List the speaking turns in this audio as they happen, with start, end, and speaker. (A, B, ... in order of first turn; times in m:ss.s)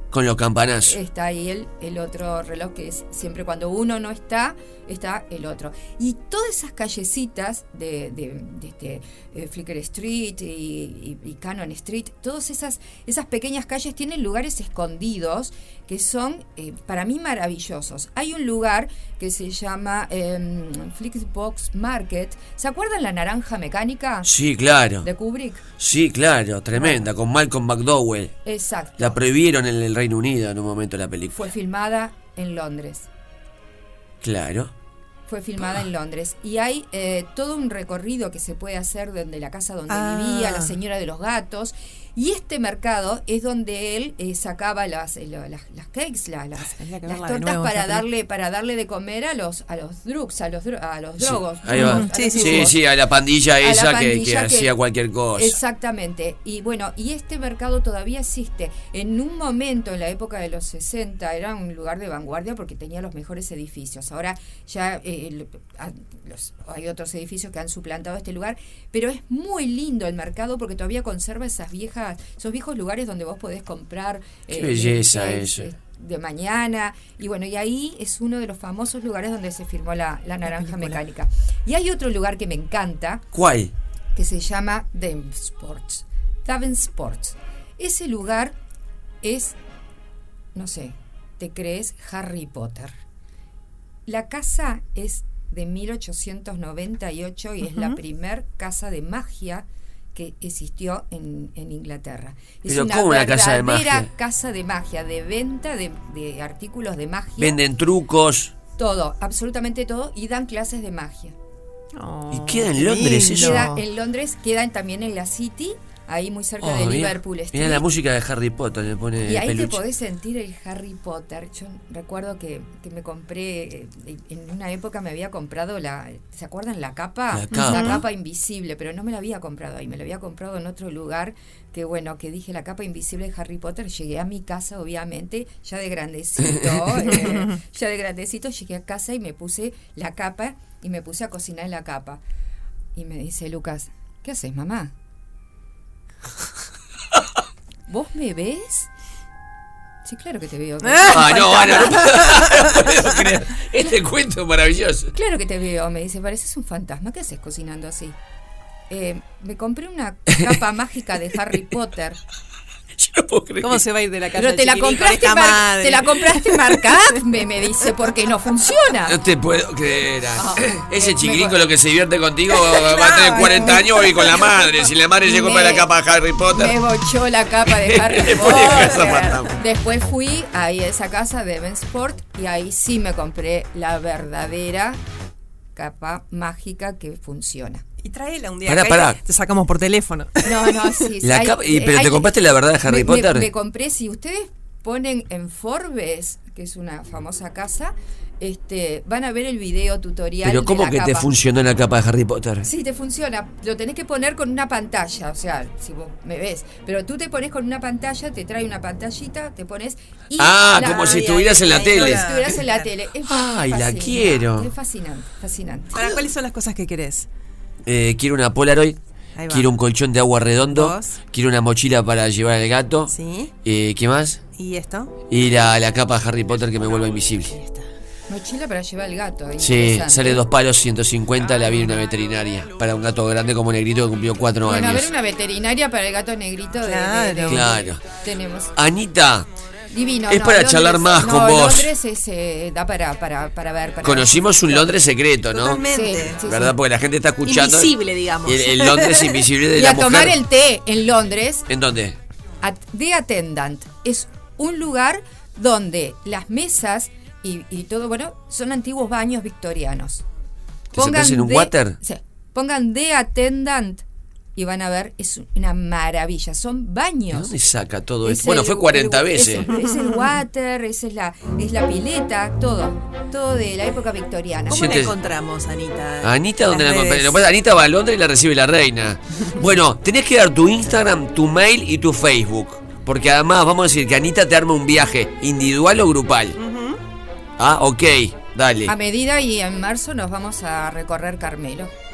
0:00.1-0:01.0 A
0:00.9-0:24.3 B
0:24.2-0:25.1 A
0:25.0-0:25.6 B
0:25.8-0:28.3 A
0:26.8-0:27.0 B
0:28.4-0:29.2 B
0:29.0-0:31.4 A
0:31.3-0:33.1 B
0:34.2-0:34.7 A
0:35.3-0:52.8 B
0:39.9-0:40.8 C
0:46.7-0:48.0 C
0:51.2-0:55.6 A
0:51.8-0:52.7 C
0:53.6-0:54.7 B
0:55.4-1:23.3 B
1:14.5-1:15.7 A
1:20.5-1:21.0 C
1:23.3-1:23.7 A
1:24.2-1:28.6 B
1:29.2-1:29.6 B
1:30.6-1:33.0 B
1:34.1-1:47.6 B
1:37.7-1:38.0 C
1:42.7-1:44.1 A
1:47.4-1:48.5 A
1:48.8-1:51.4 B
1:52.0-1:53.8 C
1:52.3-1:53.7 A
1:53.3-1:57.8 B
1:56.6-1:59.8 A
1:59.3-2:22.2 B
2:07.3-2:08.0 A
2:07.5-2:08.0 C
2:23.0-2:24.9 B
2:27.9-2:28.9 B
2:30.0-2:32.0 B
2:30.9-2:32.8 C
2:31.1-2:35.1 A
2:35.1-2:38.2 B
2:38.9-2:42.2 B
2:43.0-2:43.8 A
2:43.6-2:47.2 C
2:44.3-2:49.2 B
2:49.1-2:56.8 A
2:50.4-2:51.6 B
2:52.8-2:53.6 C
2:53.0-2:53.8 B
2:55.2-2:55.9 B
2:56.4-3:05.0 B
2:57.7-2:59.6 A
3:05.8-3:07.8 B
3:08.0-3:11.1 C
3:08.7-3:09.2 A
3:10.4-3:21.3 B
3:11.2-3:13.5 A
3:20.4-3:22.7 A
3:22.6-3:36.1 B
3:30.4-3:32.5 A
3:30.8-3:32.9 C
3:33.2-3:34.7 A
3:35.9-3:37.3 C
3:37.9-3:43.1 A
3:39.4-3:39.7 C
3:40.7-3:41.2 C
3:43.1-3:43.5 C
3:43.6-3:44.4 A
3:44.6-3:45.1 C
3:45.3-3:47.6 A
3:47.1-3:47.9 C
3:48.3-3:50.4 B
3:49.6-3:55.1 A
3:54.6-3:58.8 B
3:56.8-3:57.7 C
3:57.5-3:58.0 A
3:58.8-3:59.5 A
3:59.9-4:05.0 B
4:00.3-4:01.9 A
4:04.0-4:05.8 A
4:05.5-4:06.4 C
4:05.8-4:06.8 B
4:06.4-4:10.4 A
4:07.4-4:09.5 C
4:09.8-4:11.7 B
4:11.7-4:12.2 A
4:12.6-4:20.2 B
4:20.9-4:22.0 A
4:20.9-4:27.5 B
4:27.3-4:29.7 A
4:28.2-4:35.0 B
4:29.7-4:30.3 C
4:34.7-4:37.4 C
4:34.7-4:35.2 A
4:36.2-4:46.6 A
4:46.6-4:47.0 C
4:47.6-4:48.9 A
4:48.9-4:51.9 B